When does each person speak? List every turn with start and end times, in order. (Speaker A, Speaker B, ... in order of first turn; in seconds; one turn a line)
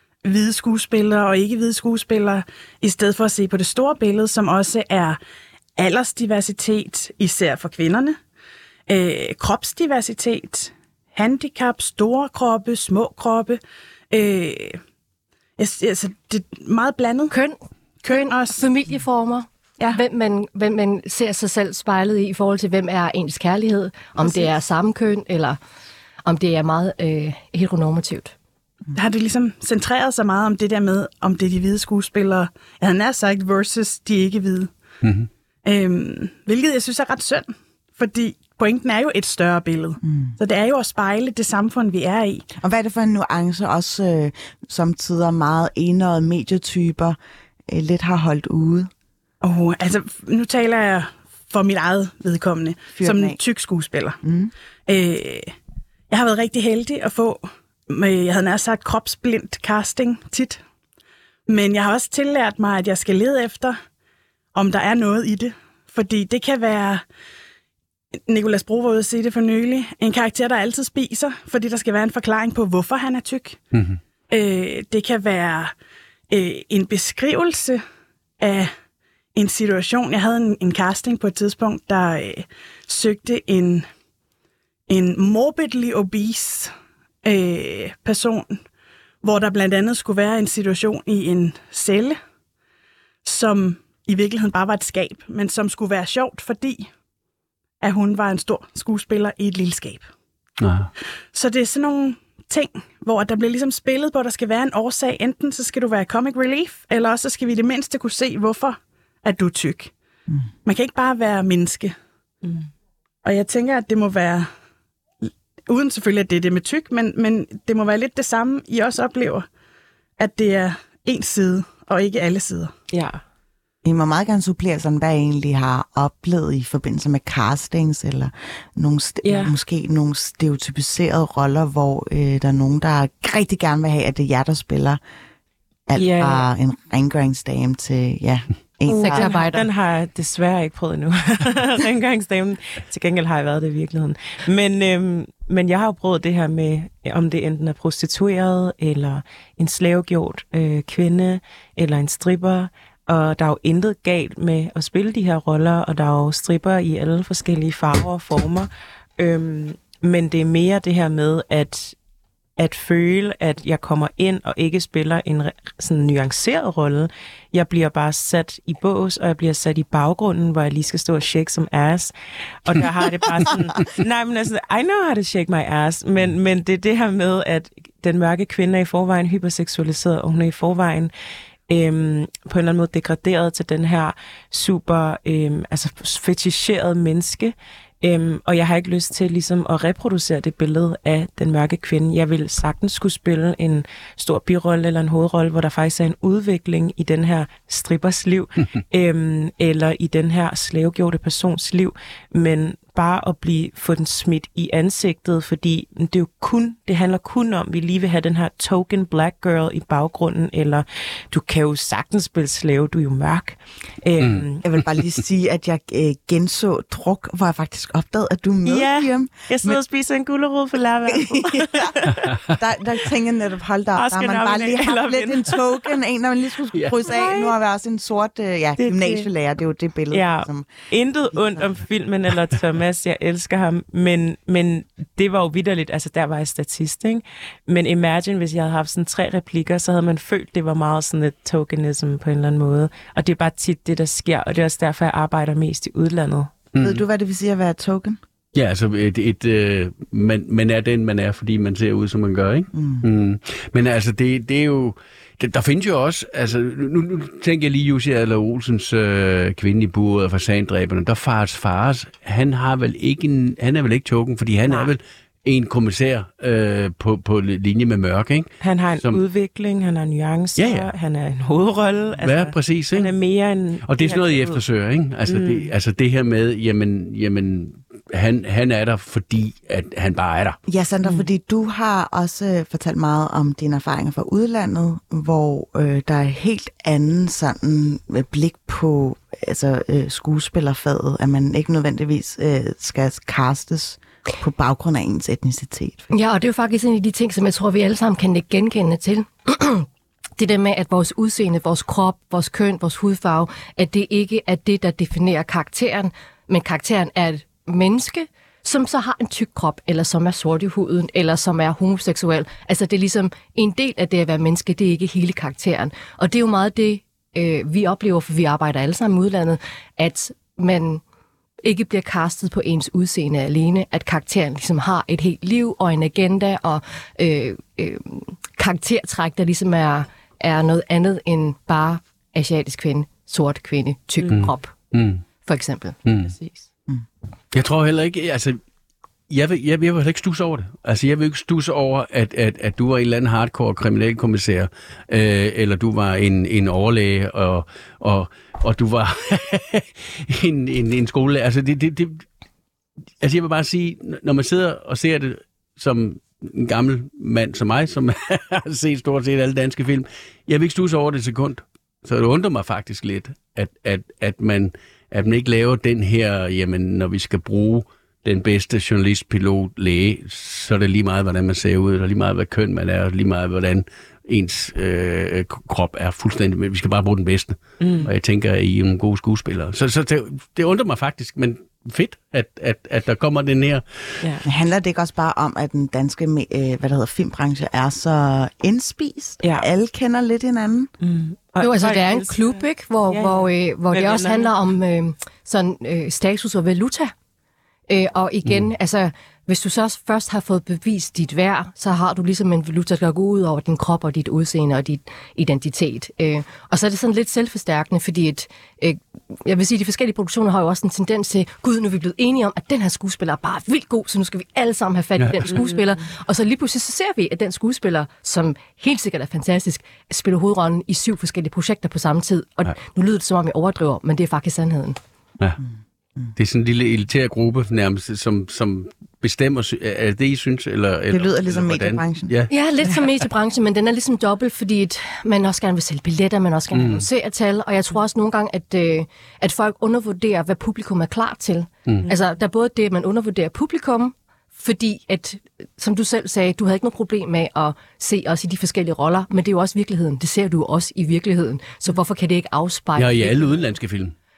Speaker A: 0.2-5.2
Speaker A: 5.8-8.2
Speaker A: 8.9-13.6
Speaker A: 14.1-14.8
Speaker A: 15.6-17.3
Speaker B: 17.3-25.6
Speaker A: 18.0-18.6
Speaker A: 24.2-24.5
Speaker B: 26.2-28.3
Speaker A: 28.9-34.7
Speaker C: 35.0-35.3
Speaker A: 35.6-42.5
Speaker D: 40.0-40.4
Speaker D: 42.6-48.9
Speaker A: 49.4-54.2
Speaker D: 53.0-53.4
Speaker D: 54.2-54.5
Speaker A: 54.9-55.5
Speaker A: 56.1-60.6
Speaker A: 61.5-63.8
Speaker A: 64.5-67.0
Speaker A: 68.3-73.6
Speaker C: 73.7-74.0
Speaker A: 74.3-75.7
Speaker A: 76.3-77.8
Speaker A: 78.4-78.7
Speaker A: 79.3-83.9
Speaker A: 84.9-86.7
Speaker A: 87.2-88.6
Speaker A: 89.2-92.2
Speaker A: 93.2-96.9
Speaker A: 97.8-100.1
Speaker C: 100.6-100.9
Speaker A: 101.3-109.9
Speaker A: 110.7-112.0
Speaker A: 113.2-114.5
Speaker A: 115.2-119.5
Speaker A: 120.2-122.7
Speaker E: 122.9-123.2
Speaker D: 123.8-135.0
Speaker E: 129.2-129.5
Speaker D: 135.9-139.3
Speaker E: 136.0-136.4
Speaker B: 138.9-139.7
Speaker E: 139.0-162.0
Speaker E: 162.6-181.1
Speaker E: 181.7-214.6
Speaker D: 214.6-219.8
Speaker E: 218.7-222.4
Speaker D: 221.1-222.0
Speaker D: 222.5-230.7
Speaker E: 224.0-225.9
Speaker E: 227.1-227.6
Speaker E: 228.8-229.3
Speaker E: 230.1-246.5
Speaker D: 231.3-231.7
Speaker C: 246.7-247.0
Speaker D: 246.8-248.2
Speaker C: 248.5-269.2
Speaker D: 252.7-253.1
Speaker E: 264.7-264.9
Speaker E: 268.6-274.6
Speaker C: 270.6-270.9
Speaker C: 272.2-273.1
Speaker C: 273.9-280.6
Speaker E: 275.3-275.7
Speaker D: 280.7-296.1
Speaker E: 281.0-281.3
Speaker B: 296.1-299.9
Speaker B: 300.4-321.0
Speaker B: 321.6-334.8
Speaker C: 334.3-335.2
Speaker B: 335.4-336.0
Speaker C: 336.1-336.3
Speaker C: 337.5-338.6
Speaker C: 339.3-352.3
Speaker C: 353.2-384.4
Speaker E: 377.8-378.1
Speaker E: 384.2-384.5
Speaker D: 384.4-390.9
Speaker E: 389.4-389.7
Speaker E: 391.0-394.5
Speaker B: 391.6-397.1
Speaker B: 397.9-425.0
Speaker C: 415.2-415.5
Speaker E: 415.5-415.8
Speaker C: 426.4-433.1
Speaker D: 431.1-432.4
Speaker B: 432.5-453.5
Speaker C: 436.7-437.1
Speaker C: 453.0-454.1